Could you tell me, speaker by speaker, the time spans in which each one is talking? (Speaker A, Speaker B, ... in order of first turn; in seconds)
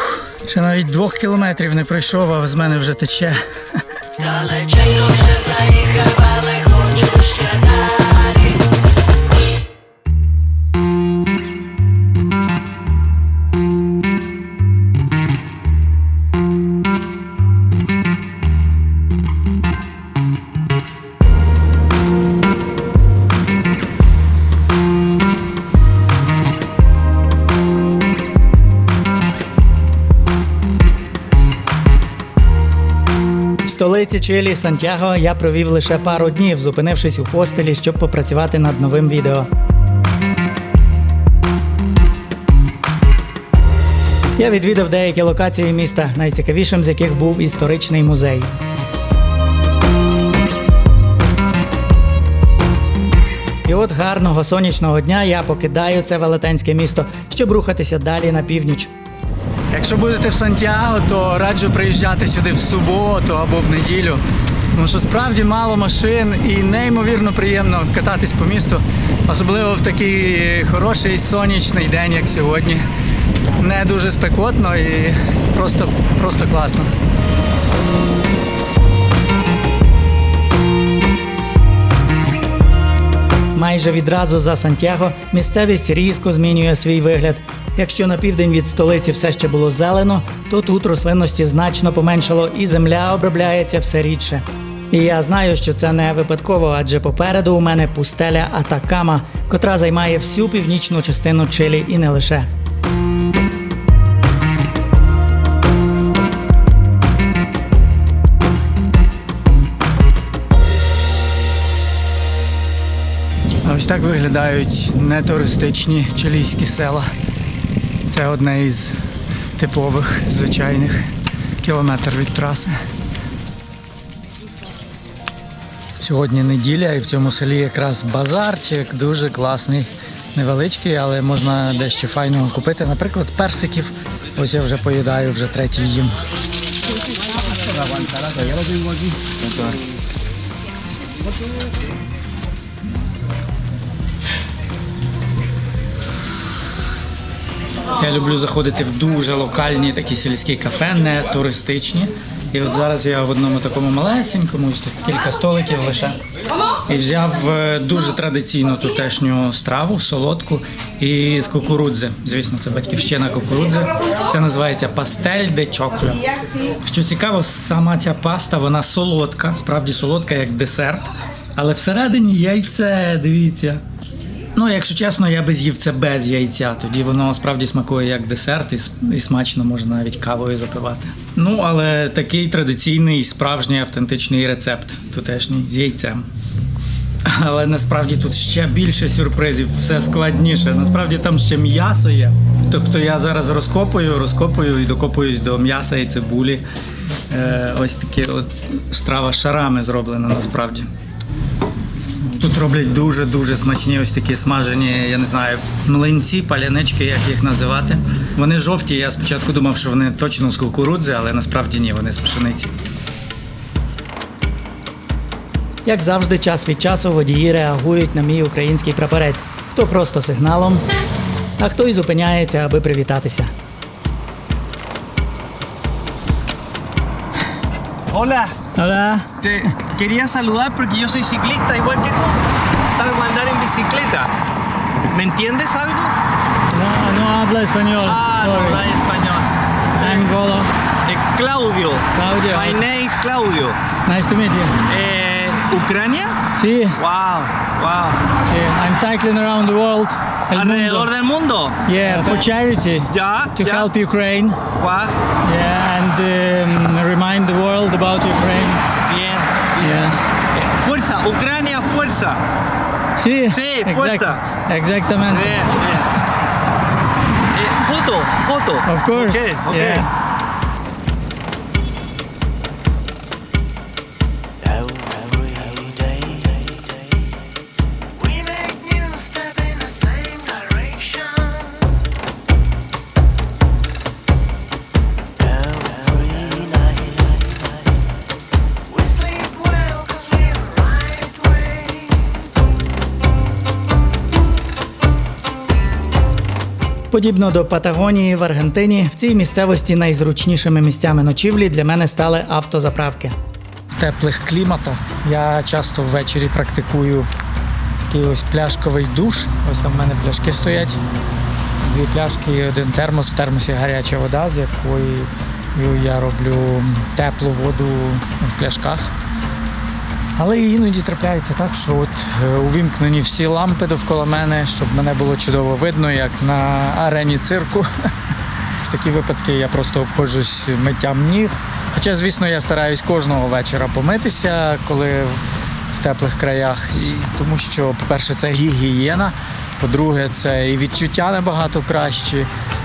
Speaker A: 0.4-3.4, 4.2-8.5, 33.6-39.5, 44.4-48.5, 53.6-58.9, 59.7-72.8, 73.6-76.9, 83.5-102.5, 113.6-117.1, 118.1-119.0, 119.6-121.1, 121.6-122.8, 126.0-136.2, 148.0-156.2, 156.8-173.8, 174.5-186.3, 187.2-196.6, 197.3-200.9, 202.2-212.7, 215.8-220.8, 221.6-223.5, 228.8-229.4, 236.7-238.8, 240.0-240.7, 242.1-242.8, 244.0-244.8, 246.5-247.0, 248.4-251.1, 251.8-254.6, 255.4-258.8, 259.8-260.2, 263.2-265.7, 268.9-270.1, 278.3-281.8, 289.0-292.2, 297.1-303.3, 303.9-307.3, 308.1-311.0, 311.8-319.1, 320.4-328.1, 328.6-342.5
Speaker B: 137.2-139.8, 228.1-228.6, 229.4-234.3, 235.0-236.2, 238.0-240.3, 241.0-243.8, 244.8-246.4, 247.0-248.2, 250.5-252.4, 253.1-253.9, 254.8-255.2, 259.1-262.4, 263.5-264.4, 265.3-266.1, 267.5-270.1, 274.6-277.0, 285.6-287.1